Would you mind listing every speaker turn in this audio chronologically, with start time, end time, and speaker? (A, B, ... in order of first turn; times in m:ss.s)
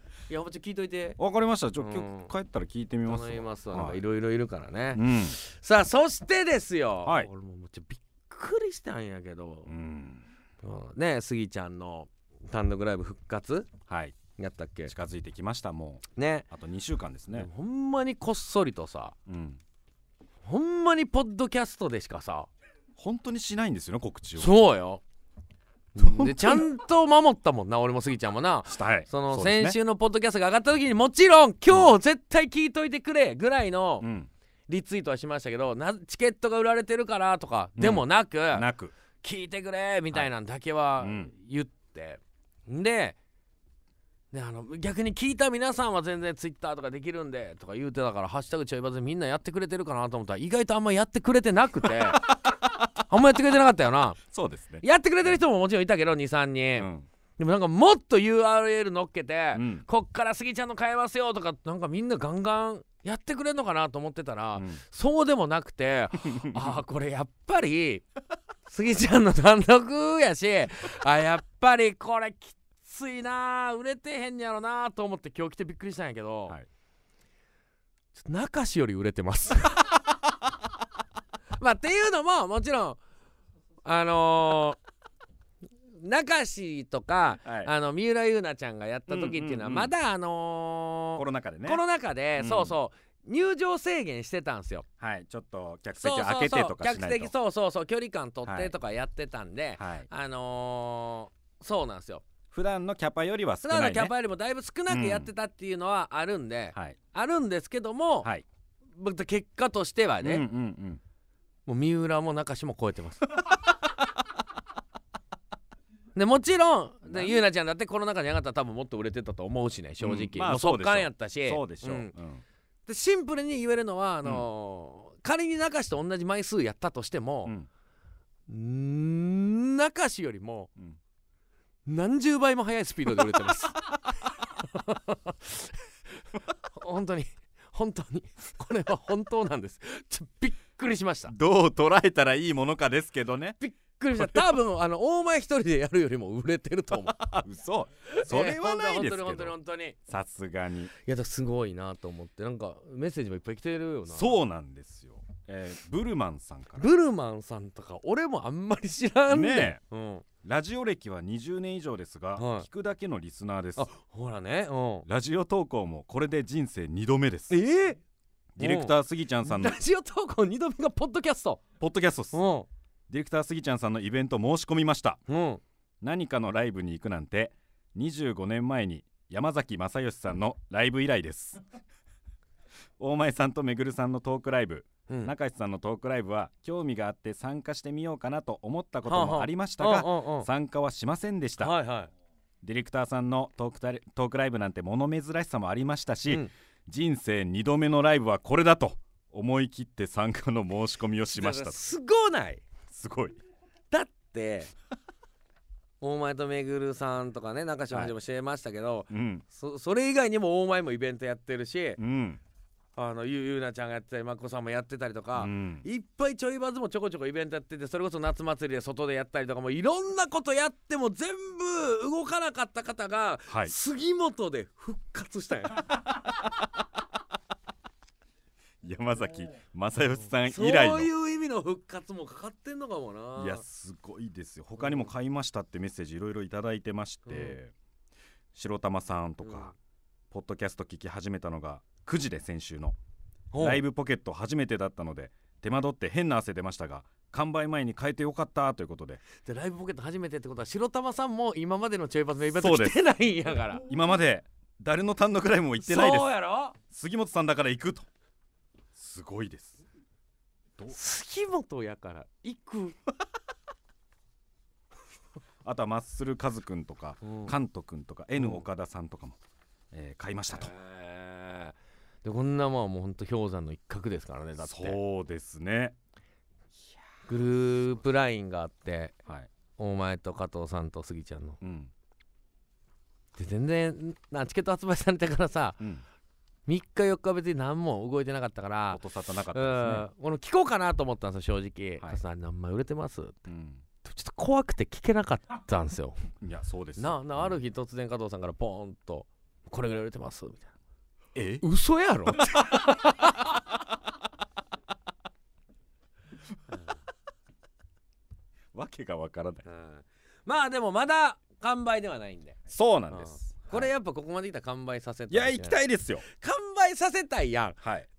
0:00.3-0:01.2 A
0:01.2-0:04.0 B
0:01.8-0:02.3 A
0:03.0-0:09.7 A
0:04.9-0:05.4 B
0:09.7-0:10.2 B
0:10.6-0:13.7 A
0:13.9-0:14.2 B
0:14.4-0:14.9 A
0:14.9-0:17.5 B
0:16.1-0:16.4 A
0:17.3-0:19.1 A
0:19.3-0:19.6 B
0:20.4-0:22.5 A
0:23.0-0:24.5 B
0:24.4-0:25.0 A
0:26.0-0:34.1 A
0:26.0-0:26.6 B
0:28.7-0:29.8 B
0:34.0-0:34.3 B
0:34.7-0:38.6 A
0:37.8-0:38.9 B
0:39.2-0:43.2 A
0:41.0-0:41.3 B
0:44.3-0:52.3 A
0:53.0-0:54.2 A
0:54.3-0:55.3 B
0:54.8-1:08.0 A
0:56.8-0:57.1 B
0:59.5-0:59.8 B
1:04.6-1:04.8 B
1:06.3-1:06.7 B
1:08.6-1:16.6 A
1:18.1-1:20.2 A
1:21.6-1:23.0 A
1:23.8-1:24.8 A
1:25.9-1:34.8 A
1:27.4-1:27.7 B
1:29.1-1:29.9 B
1:31.2-1:31.8 B
1:32.4-1:32.8 B
1:35.0-1:37.3 B
1:35.9-1:42.2 A
1:38.4-1:38.7 B
1:39.8-1:40.1 B
1:42.5-1:44.1 B
1:43.6-1:48.3 A
1:44.9-1:45.3 B
1:49.0-1:50.4 A
1:50.2-1:51.0 B
1:51.6-1:53.6 A
1:56.1-2:02.1 A
1:57.0-1:57.4 B
2:00.0-2:02.4 B
2:02.9-2:07.5 A
2:08.5-2:10.7 A
2:11.8-2:15.8 A
2:16.7-2:21.3 A
2:21.3-2:23.6 B
2:23.6-2:27.3 A
2:24.2-2:24.4 B
2:27.2-2:29.6 B
2:28.1-2:30.0 A
2:30.1-2:30.9 B
2:31.0-2:34.4 A
2:34.1-2:36.9 B
2:36.8-2:40.2 A
2:39.3-2:39.8 B
2:40.4-2:43.9 B
2:42.4-2:42.7 A
2:43.8-2:45.1 A
2:45.0-2:47.6 B
2:47.5-2:48.0 A
2:48.6-2:49.8 B
2:48.6-2:51.6 A
2:51.8-2:52.4 B
2:52.3-2:52.7 A
2:53.1-2:55.2 B
2:55.3-2:55.6 A
2:56.0-3:01.6 B
3:03.0-3:11.8 B
3:09.0-3:10.5 A
3:11.6-3:12.1 A
3:12.6-3:21.8 B
3:21.3-3:22.6 A
3:22.9-3:23.4 B
3:23.9-3:24.7 A
3:26.0-3:32.0 A
3:29.1-3:29.4 B
3:32.0-3:32.4 B
3:33.0-3:46.0 A
3:35.4-3:35.8 B
3:48.8-3:51.1 B
3:50.4-3:53.6 A
3:53.4-3:57.7 B
3:54.8-3:55.1 A
3:57.3-3:57.6 A
3:58.5-3:59.7 B
3:59.4-3:59.7 A
4:00.3-4:03.0 B
4:03.5-4:03.8 A
4:03.6-4:09.2 B
4:09.4-4:13.8 A
4:12.5-4:13.0 B
4:13.8-4:16.3 B
4:15.8-4:16.8 A
4:16.9-4:18.1 B
4:18.9-4:19.8 B
4:20.9-4:23.0 A
4:25.6-4:29.4 B
4:27.2-4:27.5 A
4:28.4-4:28.6 A
4:29.9-4:30.7 B
4:30.5-4:35.0 A
4:34.6-4:35.9 B
4:37.3-4:39.1 A
4:39.8-4:41.6 A
4:41.6-4:41.9 B
4:43.4-4:45.8 A
4:46.7-4:53.4 A
4:48.9-4:50.0 B
4:53.5-4:53.8 B
4:54.0-4:56.2 A
4:56.4-4:57.6 B
4:57.0-5:00.7 A
5:01.3-5:01.6 B
5:01.6-5:03.8 A
5:08.7-5:09.6 B
5:09.6-5:12.6 A
5:12.7-5:13.9 B
5:13.1-5:17.8 A
5:15.3-5:16.2 B
5:17.8-5:18.1 B